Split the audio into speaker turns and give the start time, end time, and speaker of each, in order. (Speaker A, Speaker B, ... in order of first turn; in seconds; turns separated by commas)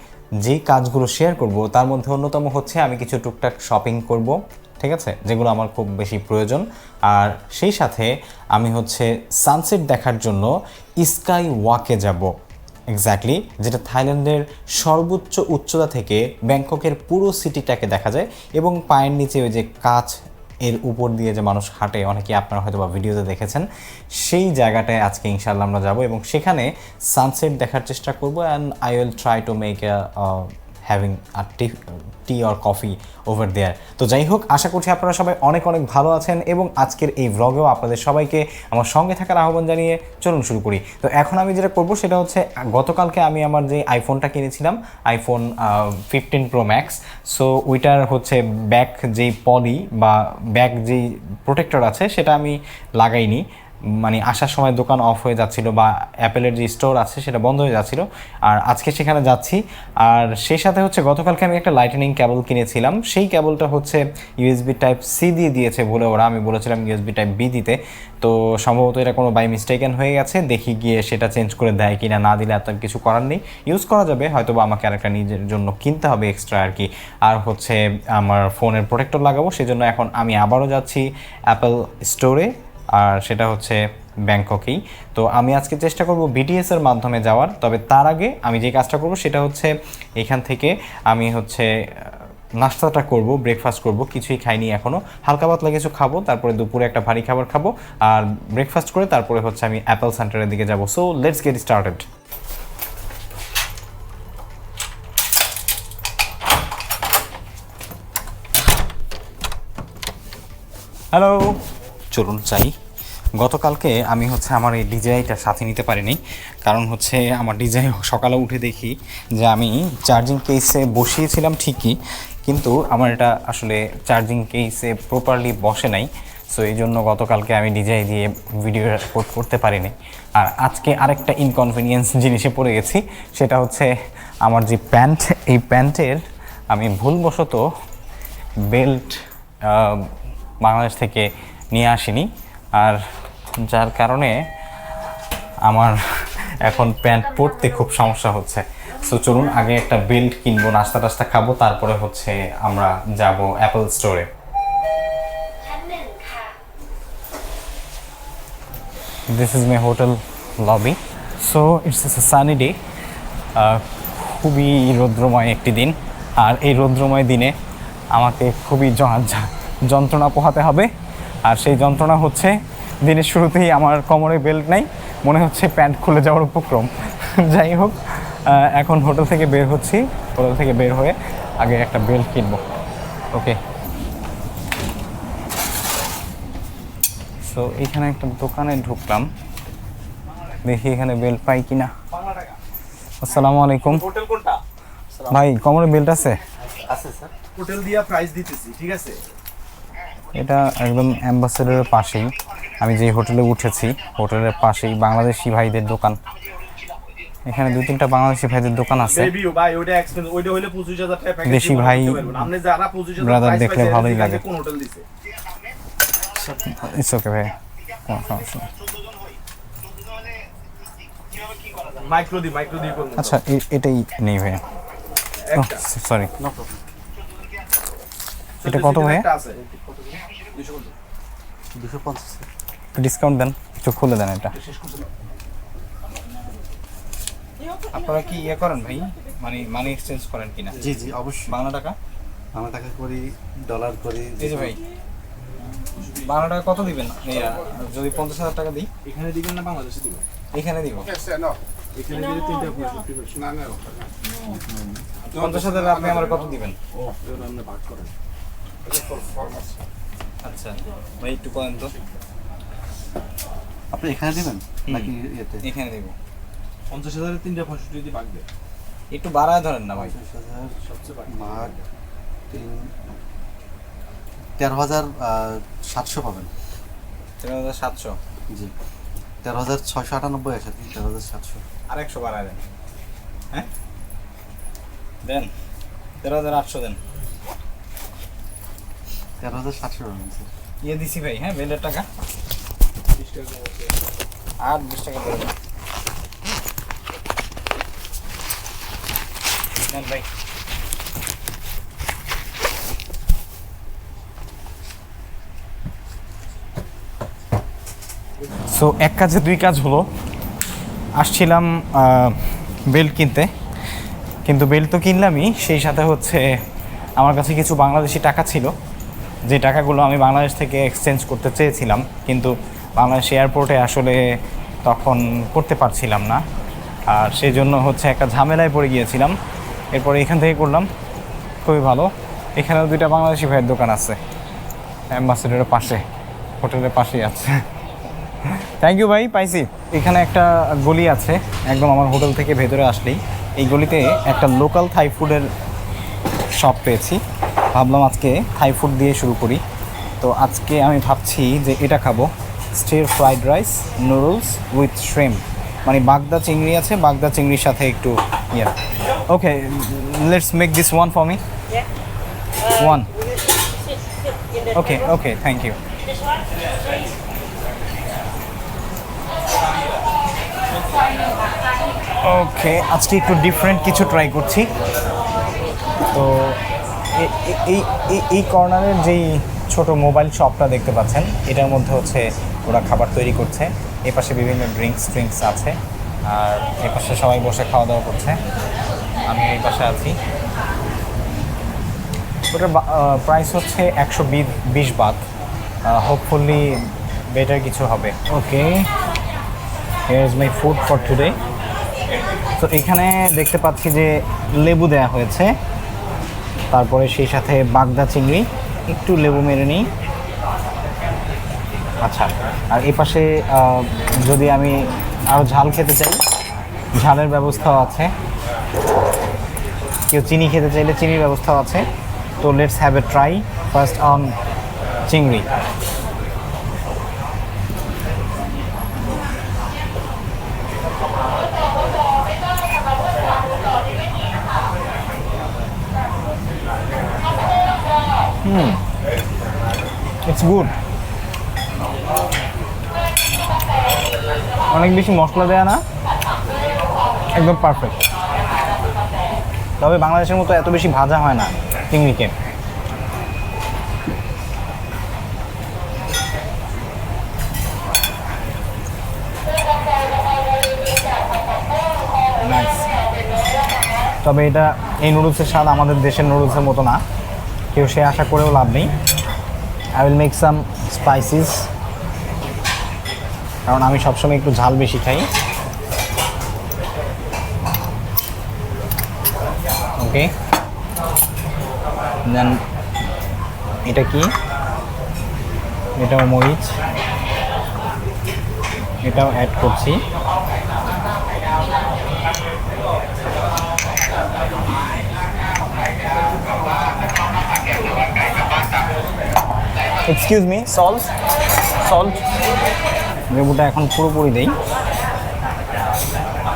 Speaker A: 0.4-12.3, Speaker A: 12.9-23.7, Speaker A: 24.2-53.4, Speaker A: 54.0-102.1, Speaker A: 111.1-111.6, Speaker A: 112.1-112.7, Speaker A: 113.4-133.9, Speaker A: 134.4-137.7, Speaker A: 138.7-140.1, Speaker A: 140.6-143.0, Speaker A: 143.6-144.4, Speaker A: 145.7-146.0, Speaker A: 146.6-154.3, Speaker A: 159.3-162.8, Speaker A: 163.6-167.5, Speaker A: 168.2-170.9, Speaker A: 171.5-182.6, Speaker A: 183.3-183.6, Speaker A: 187.4-189.3, Speaker A: 190.7-191.9, Speaker B: 192.1-192.6, Speaker A: 193.2-194.0, Speaker B: 193.9-194.6, Speaker A: 195.3-196.4, Speaker C: 196.8-197.3, Speaker B: 197.6-199.2, Speaker A: 200.4-206.2, Speaker A: 207.5-209.3, Speaker B: 209.1-215.1, Speaker A: 211.4-212.3, Speaker A: 213.2-214.4, Speaker C: 216.4-216.7, Speaker A: 216.7-217.5, Speaker A: 218.1-218.7, Speaker B: 222.0-223.4, Speaker A: 223.2-224.6, Speaker B: 225.5-225.8, Speaker A: 225.5-226.3, Speaker C: 226.4-226.8, Speaker B: 228.6-230.9, Speaker A: 228.6-229.3, Speaker C: 231.8-232.5, Speaker A: 233.0-234.5, Speaker B: 234.6-235.1, Speaker A: 237.9-240.8, Speaker C: 240.8-241.5, Speaker A: 241.5-242.0, Speaker C: 242.6-244.8, Speaker A: 244.4-244.8, Speaker B: 245.9-246.5, Speaker A: 246.2-248.9, Speaker B: 249.1-250.2, Speaker A: 250.6-251.1, Speaker B: 251.9-254.1, Speaker C: 254.7-255.1, Speaker B: 255.2-258.1, Speaker A: 255.3-256.8, Speaker B: 258.9-259.7, Speaker A: 260.4-261.9, Speaker C: 263.9-265.6, Speaker A: 265.6-266.1, Speaker B: 266.9-268.5, Speaker A: 269.1-270.1, Speaker C: 269.9-271.8, Speaker B: 270.8-271.8, Speaker C: 272.5-272.9, Speaker C: 274.6-276.5, Speaker A: 277.4-278.2, Speaker C: 279.4-281.6, Speaker A: 281.9-282.6, Speaker A: 285.2-285.5, Speaker A: 286.2-287.0, Speaker C: 289.4-290.5, Speaker A: 290.8-292.1, Speaker B: 293.1-293.9, Speaker A: 294.6-295.5, Speaker A: 299.9-300.3, Speaker A: 308.7-310.1, Speaker A: 311.2-312.4, Speaker A: 312.9-313.5, Speaker A: 314.5-316.5, Speaker A: 317.2-318.7, Speaker A: 319.5-324.3, Speaker A: 324.9-326.4, Speaker A: 327.1-329.4, Speaker A: 329.9-330.9, Speaker A: 331.6-334.2, Speaker A: 335.1-336.1, Speaker A: 336.6-337.6, Speaker A: 338.5-345.5, Speaker A: 346.6-347.2, Speaker A: 347.7-349.6, Speaker A: 350.2-358.7, Speaker A: 359.3-361.4, Speaker A: 362.7-363.1, Speaker A: 364.7-365.8, Speaker A: 372.2-374.7, Speaker A: 376.1-376.6, Speaker A: 377.2-385.8, Speaker A: 386.3-388.4, Speaker A: 389.3-390.1, Speaker A: 392.5-395.2, Speaker A: 395.9-396.8, Speaker A: 397.3-398.9, Speaker A: 400.1-401.4, Speaker A: 402.6-405.5, Speaker A: 406.7-409.9, Speaker A: 412.0-416.2, Speaker A: 417.0-418.1, Speaker A: 420.1-421.9, Speaker A: 422.4-424.3, Speaker A: 425.1-425.5, Speaker A: 438.4-438.8, Speaker A: 440.2-440.7, Speaker A: 444.7-445.8, Speaker A: 447.4-448.0, Speaker A: 449.8-452.3, Speaker A: 462.4-462.9, Speaker A: 464.2-467.0, Speaker A: 467.7-468.9, Speaker A: 470.0-471.7, Speaker A: 473.7-475.3, Speaker A: 480.0-480.3, Speaker A: 482.3-482.6, Speaker A: 483.9-484.3, Speaker A: 486.0-486.7, Speaker A: 489.0-490.0, Speaker A: 500.1-501.1, Speaker A: 501.8-502.2, Speaker A: 503.3-504.5